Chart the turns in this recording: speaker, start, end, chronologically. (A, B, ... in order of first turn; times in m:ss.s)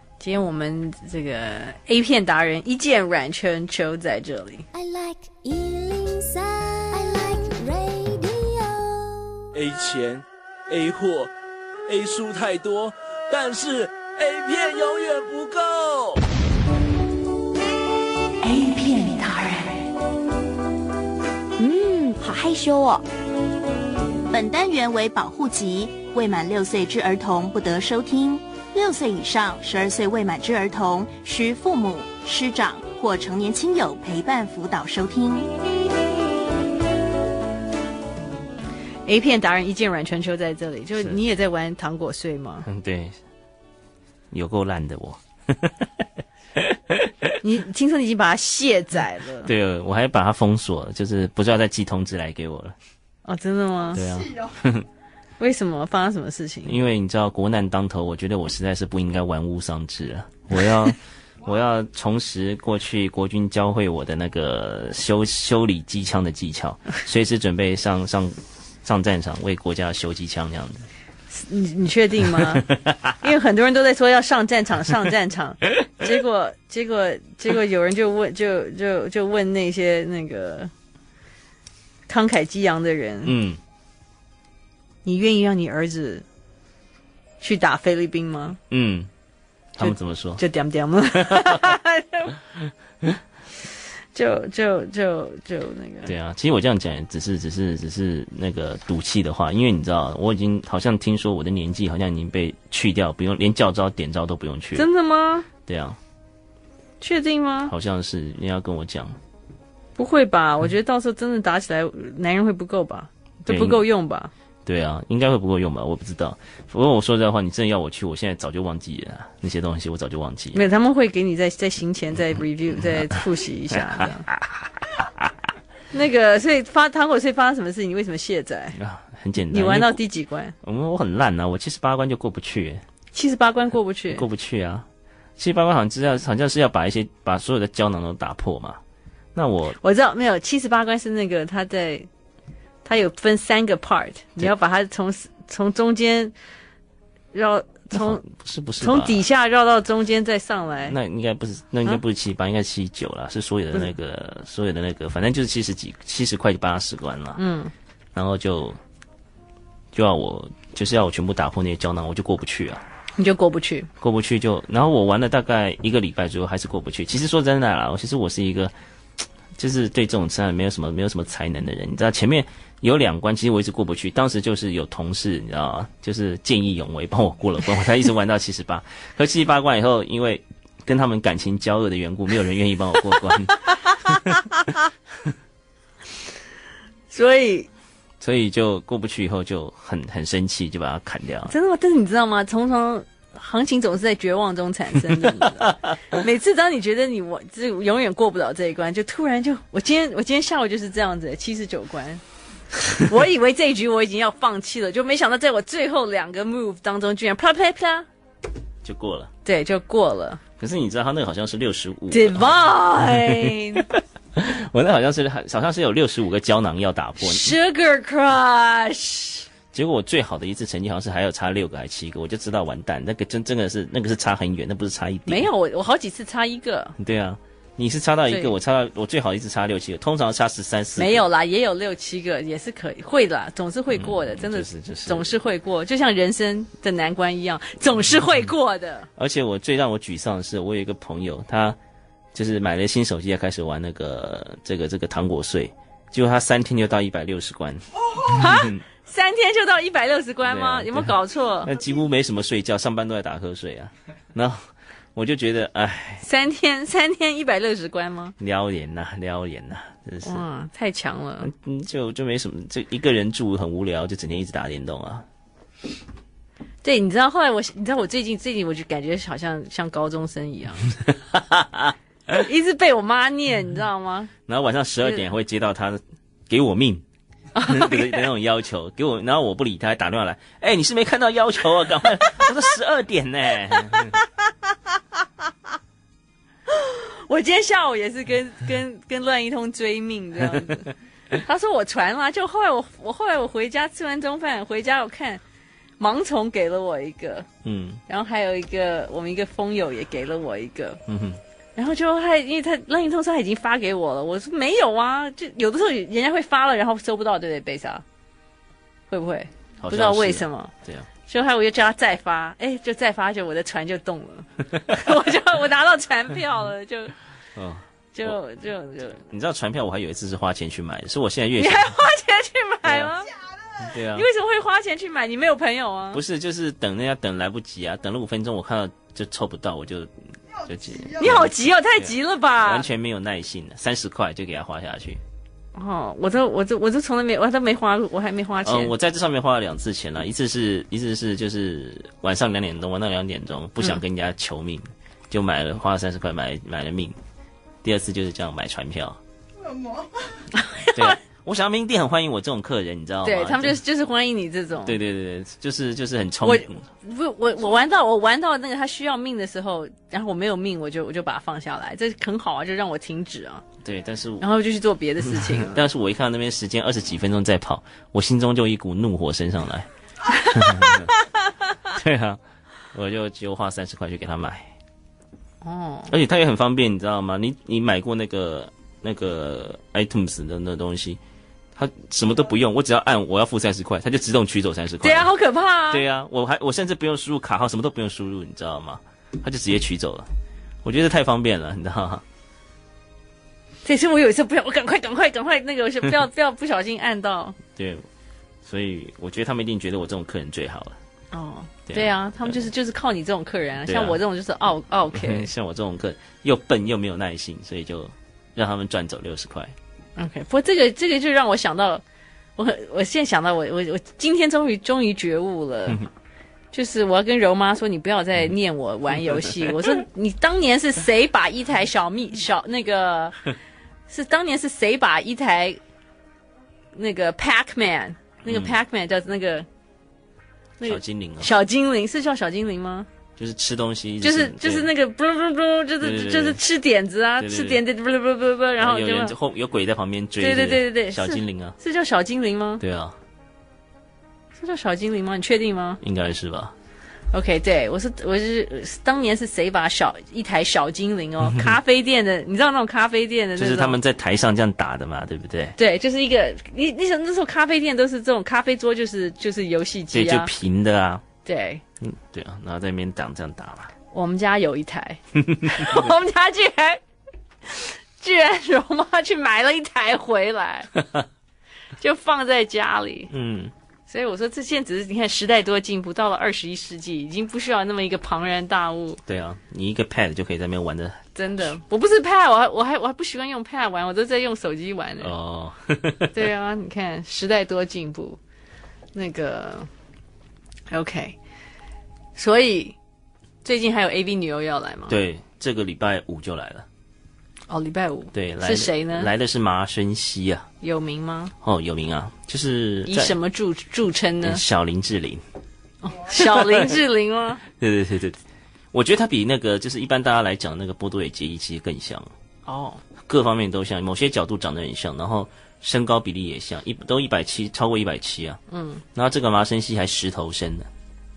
0:00.2-0:04.6 A
0:04.7-0:09.4 B
0:09.5-0:11.3 C
0:11.9-0:16.2 C
0:18.4-0:19.7 A
0:21.6-0:23.0 B
0:24.3-0:35.5 D
0:39.0-0:42.7 A
0:42.6-0:43.2 E
0:44.3-0:47.4 E
0:47.4-0:49.5 A
0:49.4-0:52.8 E
0:53.2-0:54.0 A
0:53.9-0:54.5 F
0:53.9-0:54.8 E
0:55.4-0:56.8 A
0:56.6-1:10.8 E
1:11.3-1:20.7 A
1:12.4-1:13.1 E
1:22.1-1:23.4 A
1:23.2-1:23.6 E
1:25.0-1:26.2 A
1:27.4-1:28.6 A
1:28.7-1:29.1 E
1:29.7-1:30.4 E
1:29.8-1:32.4 A
1:31.1-1:31.7 E
1:34.1-1:36.1 A
1:36.0-1:44.9 E
1:44.7-1:45.5 A
1:45.6-1:46.0 E
1:47.0-1:47.7 A
1:47.7-1:49.2 E
1:50.0-1:54.3 A
1:53.4-1:53.8 E
1:54.6-2:00.6 E
2:00.5-2:04.3 A
2:03.7-2:05.3 E
2:05.9-2:08.8 A
2:08.7-2:10.0 E
2:09.5-2:10.5 A
2:10.6-2:12.8 E
2:13.1-2:14.2 A
2:14.1-2:14.9 E
2:15.4-2:18.8 E
2:19.3-2:19.8 E
2:19.8-2:22.1 A
2:22.8-2:26.3 A
2:27.3-2:28.2 A
2:27.9-2:29.2 E
2:28.8-2:31.0 A
2:30.9-2:37.4 E
2:37.4-2:37.7 A
2:38.1-2:38.8 E
2:39.9-2:42.8 E
2:43.2-2:43.9 A
2:44.0-2:48.7 E
2:49.6-3:04.3 E
3:07.1-3:07.7 A
3:08.2-3:11.5 E
3:11.5-3:22.2 A
3:15.3-3:15.7 E
3:22.9-3:28.1 A
3:28.8-3:29.3 E
3:29.4-3:30.4 A
3:30.6-3:37.5 E
3:32.1-3:33.8 A
3:37.2-3:39.4 A
3:39.7-3:45.5 E
3:45.3-3:47.0 A
3:47.0-3:51.2 E
3:48.3-3:48.5 A
3:51.0-3:59.1 A
3:53.9-3:55.3 E
3:59.2-4:01.8 E
4:02.3-4:08.8 E
4:08.3-4:11.7 A
4:10.4-4:11.1 E
4:11.6-4:16.2 E
4:16.2-4:18.3 A
4:18.4-4:20.4 E
4:20.2-4:21.5 A
4:21.4-4:25.2 E
4:26.8-4:30.9 A
4:31.1-4:32.4 E
4:32.4-4:34.3 A
4:34.5-4:37.0 E
4:37.5-4:38.2 A
4:37.6-4:44.2 E
4:46.7-4:55.4 A
4:56.0-4:57.5 A
4:57.6-4:58.0 E
4:58.1-5:01.0 A
5:01.1-5:01.4 E
5:01.8-5:08.0 A
5:09.1-5:10.7 A
5:09.8-5:11.1 E
5:11.3-5:17.1 A
5:17.6-5:18.4 E
5:18.1-5:19.2 A
5:19.3-5:22.0 E
5:21.6-5:23.3 A
5:23.3-5:23.9 F
5:23.8-5:24.3 E
5:24.1-5:26.2 A
5:26.1-5:30.1 E
5:30.5-5:31.4 F
5:30.6-5:35.2 E
5:31.2-5:32.9 A
5:35.7-5:38.9 A
5:38.6-5:47.2 E
5:47.8-5:49.2 E
5:49.5-5:50.5 F
5:50.6-5:51.2 A
5:50.9-5:53.8 E
5:53.2-5:55.0 A
5:54.8-5:56.8 E
5:56.4-6:03.6 A
6:03.8-6:04.5 E
6:04.4-6:05.8 A
6:05.3-6:11.1 E
6:11.8-6:12.4 E
6:12.9-6:14.7 E
6:15.6-6:16.1 A
6:16.1-6:21.2 E
6:21.7-6:25.3 E
6:25.0-6:26.0 A
6:25.9-6:30.3 E
6:30.8-6:32.2 E
6:33.8-6:37.6 A
6:37.7-6:38.0 E
6:38.6-6:41.0 E
6:41.3-6:45.5 A
6:41.9-6:42.6 E
6:43.8-6:44.2 E
6:45.1-6:49.7 E
6:50.2-6:52.0 A
6:52.6-6:56.0 A
6:56.7-7:03.4 A
7:04.1-7:05.8 A
7:06.9-7:09.7 A
7:08.4-7:08.8 E
7:10.8-7:13.1 A
7:10.8-7:11.5 E
7:13.4-7:14.9 E
7:14.2-7:19.3 A
7:16.0-7:16.6 E
7:17.4-7:17.8 E
7:18.8-7:21.8 E
7:20.4-7:22.8 A
7:22.8-7:23.2 E
7:24.6-7:26.0 A
7:26.0-7:26.7 E
7:27.3-7:34.0 A
7:33.6-7:35.8 E
7:35.8-7:40.5 A
7:40.1-7:41.2 E
7:41.4-7:41.8 A
7:42.0-7:43.9 E
7:44.1-7:47.0 A
7:45.4-7:46.1 E
7:47.7-7:50.9 A
7:51.0-7:51.2 E
7:52.0-7:53.3 A
7:53.3-7:53.7 E
7:54.1-7:59.2 A
7:59.2-8:01.2 E
8:01.3-8:05.3 A
8:05.2-8:06.4 E
8:06.3-8:08.4 A
8:09.1-8:09.9 A
8:10.9-8:11.4 A
8:12.4-8:13.0 A
8:13.6-8:15.2 A
8:15.1-8:16.9 E
8:17.7-8:19.3 A
8:18.3-8:20.7 E
8:20.8-8:21.5 A
8:21.6-8:23.4 E
8:23.1-8:24.6 A
8:24.4-8:25.4 E
8:26.0-8:27.6 A
8:26.3-8:26.9 E
8:27.8-8:28.4 E
8:28.9-8:32.3 E
8:32.6-8:33.0 A
8:33.2-8:38.6 E
8:38.7-8:39.0 A
8:39.1-8:40.9 E